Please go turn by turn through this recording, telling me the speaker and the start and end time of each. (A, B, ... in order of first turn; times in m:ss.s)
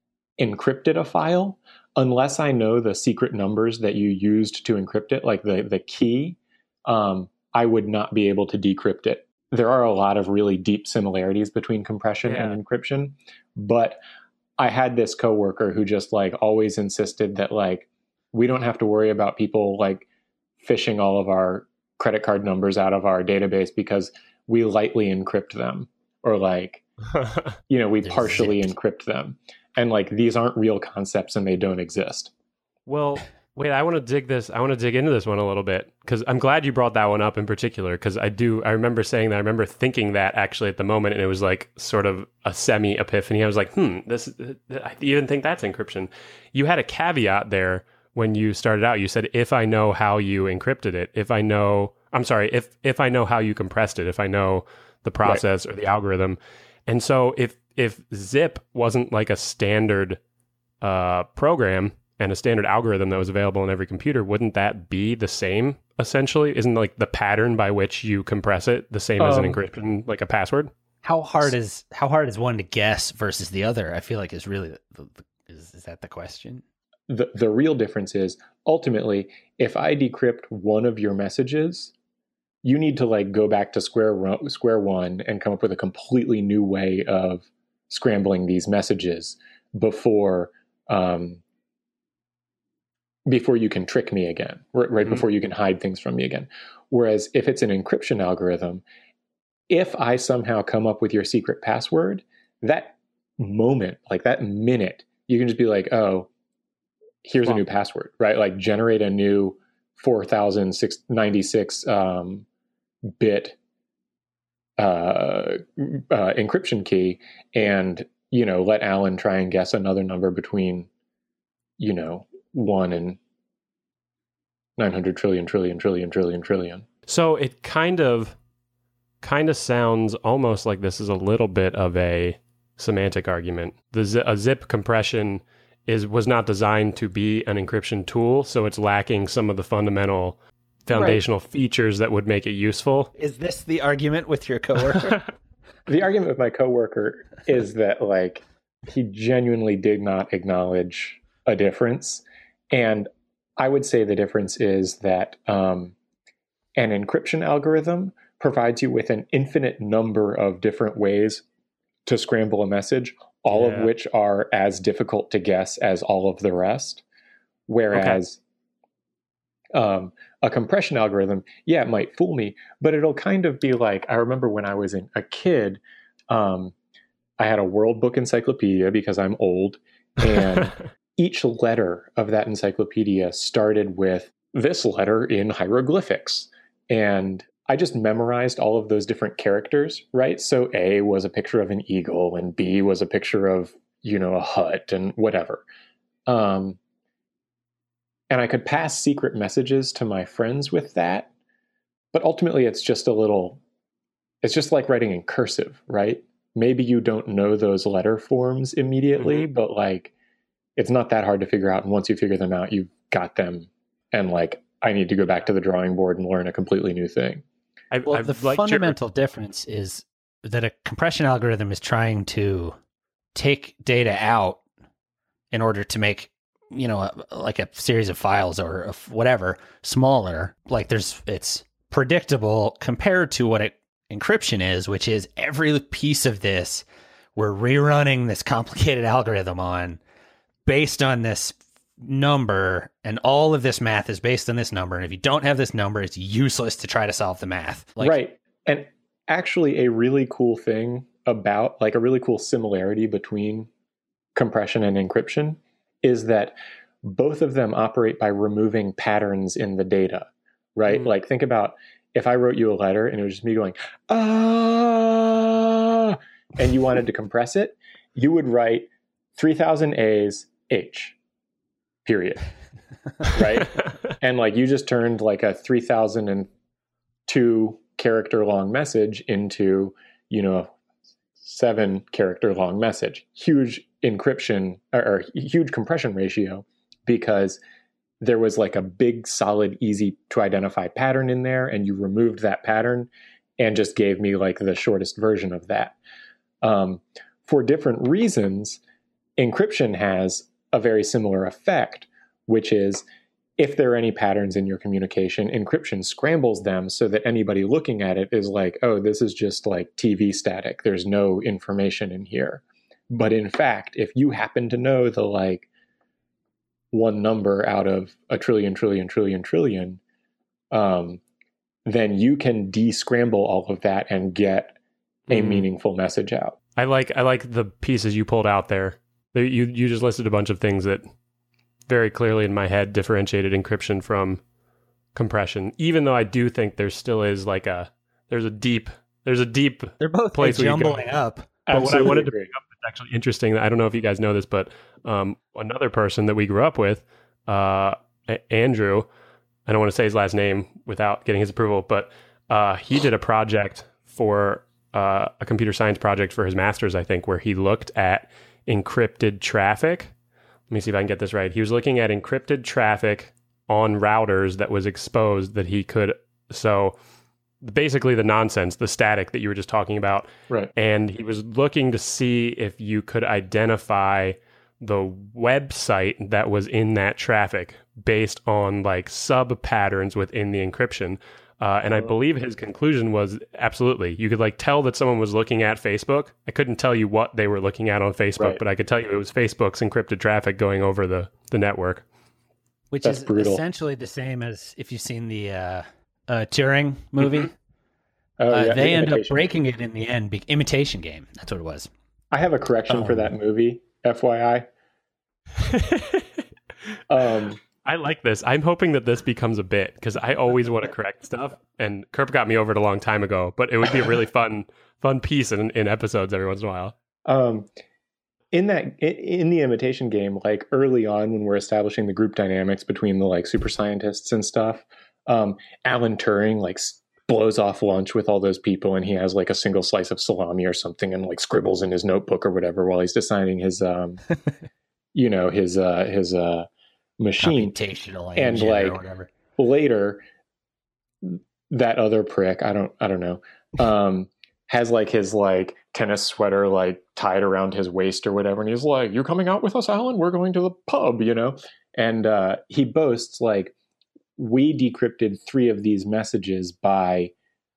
0:00.4-0:14.0 A
0:12.2-0:12.6 B
0:14.6-0:20.1 A
0:20.6-0:26.8 A
0:27.7-0:32.3 A
0:28.0-0:28.7 C
0:32.9-1:00.2 B
1:00.8-1:10.7 B
1:09.2-1:09.6 A
1:11.0-1:16.6 C
1:17.1-1:21.9 A
1:22.6-1:31.4 A
1:33.3-1:38.8 A
1:39.7-1:46.3 A
1:47.2-1:52.4 A
1:53.2-1:53.6 A
1:54.8-2:00.9 A
2:01.8-2:03.2 A
2:04.8-2:06.8 A
2:07.1-2:08.4 B
2:09.2-2:23.1 B
2:20.9-2:21.2 A
2:23.2-2:25.2 C
2:24.9-2:25.2 B
2:25.9-2:35.9 A
2:36.8-2:41.4 A
2:42.0-2:47.0 A
2:43.5-2:43.9 B
2:47.7-2:48.4 A
2:47.9-2:48.2 B
2:49.7-2:56.7 A
2:57.4-3:15.6 A
3:16.3-3:16.8 A
3:18.3-3:21.3 A
3:22.1-3:23.6 A
3:24.4-3:30.1 A
3:29.2-3:29.4 B
3:30.8-3:37.4 A
3:37.9-3:39.0 B
3:38.0-3:42.8 C
3:43.3-3:44.6 C
3:45.5-3:56.8 C
3:57.4-4:00.0 C
4:00.6-4:08.2 C
4:08.0-4:13.7 A
4:14.3-4:31.2 A
4:32.0-4:32.5 A
4:33.2-4:36.5 A
4:37.3-4:40.7 A
4:41.4-4:47.6 A
4:48.2-4:56.0 A
4:56.6-4:58.8 A
4:59.4-5:03.0 A
5:03.6-5:15.7 A
5:16.9-5:20.0 A
5:20.7-5:21.2 A
5:21.8-5:24.8 A
5:25.3-5:25.7 B
5:25.3-5:26.6 A
5:26.8-5:31.0 B
5:31.9-5:34.4 B
5:35.1-5:41.0 B
5:40.0-5:41.6 C
5:41.7-5:42.5 A
5:41.7-5:49.1 B
5:49.7-6:00.1 B
6:00.7-6:07.0 B
6:07.6-6:32.0 B
6:32.9-6:37.5 C
6:33.0-6:33.6 A
6:38.4-6:39.5 A
6:38.5-6:41.9 C
6:42.3-6:44.6 A
6:42.9-6:43.3 C
6:45.6-6:46.2 B
6:47.1-6:47.6 A
6:47.8-6:56.9 B
6:57.2-6:57.7 A
6:58.5-7:14.2 A
7:15.1-7:16.7 A
7:17.2-7:17.7 A
7:17.4-7:19.3 C
7:18.4-7:19.0 A
7:19.6-7:20.2 A
7:21.2-7:33.7 A
7:34.4-7:37.3 A